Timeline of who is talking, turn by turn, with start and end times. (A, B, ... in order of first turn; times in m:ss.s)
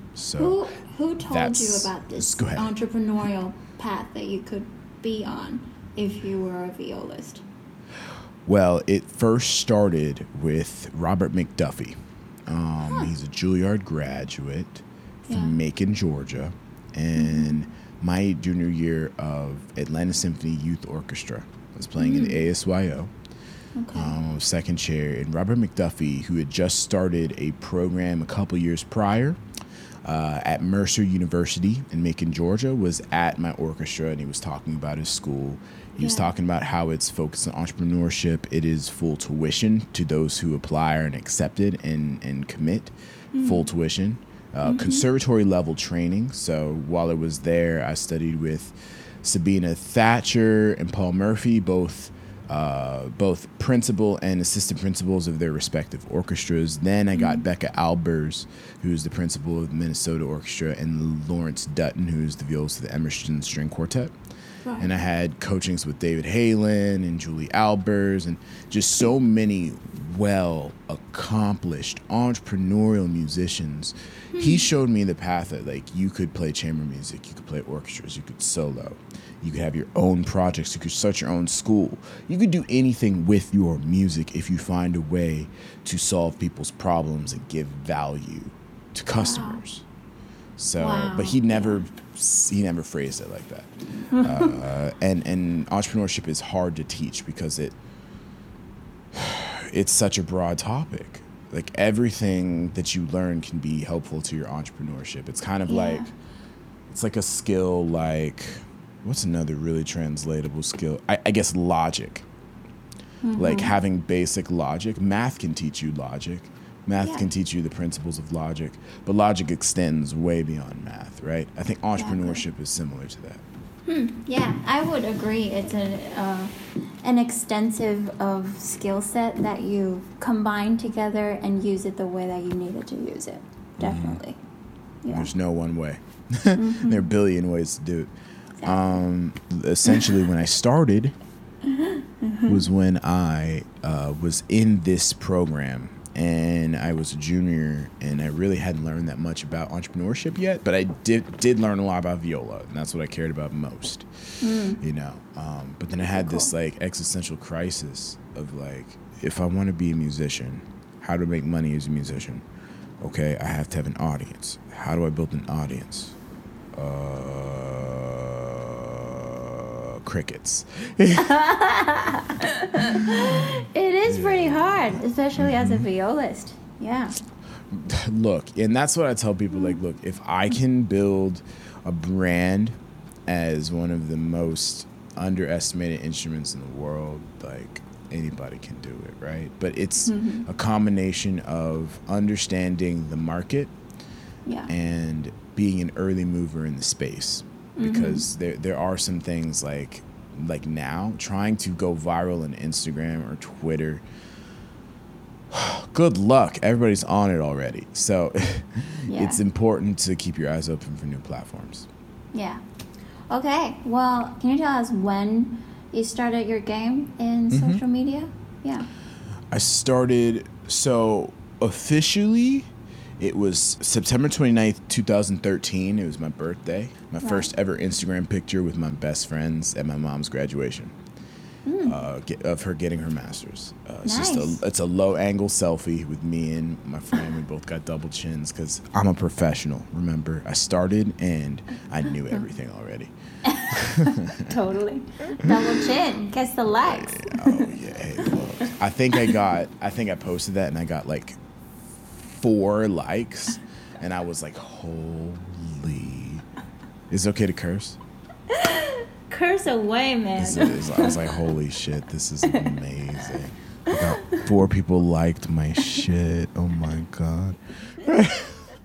0:00.2-0:00.6 A
0:00.4-0:07.4 B
0:01.2-0:02.7 A
0:08.5-0:23.1 A
0:15.3-0:15.6 B
0:17.2-0:17.6 B
0:22.0-0:22.4 B
0:23.8-0:24.2 B
0:23.9-0:29.4 A
0:30.0-1:04.1 A
0:36.0-0:36.3 B
0:43.4-0:43.7 B
0:44.6-0:45.1 B
0:57.2-0:57.4 B
1:04.6-1:04.9 B
1:04.8-1:29.8 A
1:14.3-1:14.7 B
1:29.2-1:29.6 B
1:30.6-1:37.8 A
1:30.8-1:31.8 B
1:34.1-1:34.6 B
1:39.1-1:46.1 A
1:45.7-1:46.1 B
1:46.9-1:52.3 A
1:53.2-1:53.8 B
1:53.4-2:03.4 A
1:57.0-1:57.3 B
2:02.0-2:02.4 B
2:03.9-2:06.5 B
2:07.0-2:14.4 B
2:13.8-2:14.2 A
2:15.0-2:15.3 B
2:15.1-2:18.1 A
2:16.6-2:17.1 B
2:18.6-2:19.0 B
2:18.6-2:21.2 A
2:21.7-2:22.6 B
2:22.5-2:34.1 A
2:34.4-2:34.8 B
2:34.6-2:42.4 A
2:36.1-2:36.5 B
2:43.0-2:46.2 A
2:46.8-2:51.4 A
2:51.2-2:57.2 B
2:52.8-2:53.4 A
2:54.1-2:55.9 A
2:57.7-3:02.8 A
3:03.3-3:13.7 A
3:10.0-3:10.5 B
3:14.5-3:14.7 B
3:14.7-3:24.0 A
3:17.8-3:18.2 B
3:25.5-3:31.9 A
3:29.1-3:29.4 B
3:32.3-3:32.6 B
3:33.3-3:38.9 B
3:37.5-3:37.8 A
3:39.5-3:51.0 A
3:47.2-3:47.5 B
3:51.7-3:52.0 B
3:51.8-4:03.1 A
3:54.0-3:54.6 B
4:03.4-4:09.4 B
4:03.7-4:04.6 A
4:05.4-4:05.7 A
4:06.8-4:11.4 A
4:12.2-4:16.5 A
4:17.1-4:18.0 A
4:18.5-4:21.4 B
4:20.4-4:28.7 A
4:22.5-4:22.7 B
4:23.9-4:24.4 B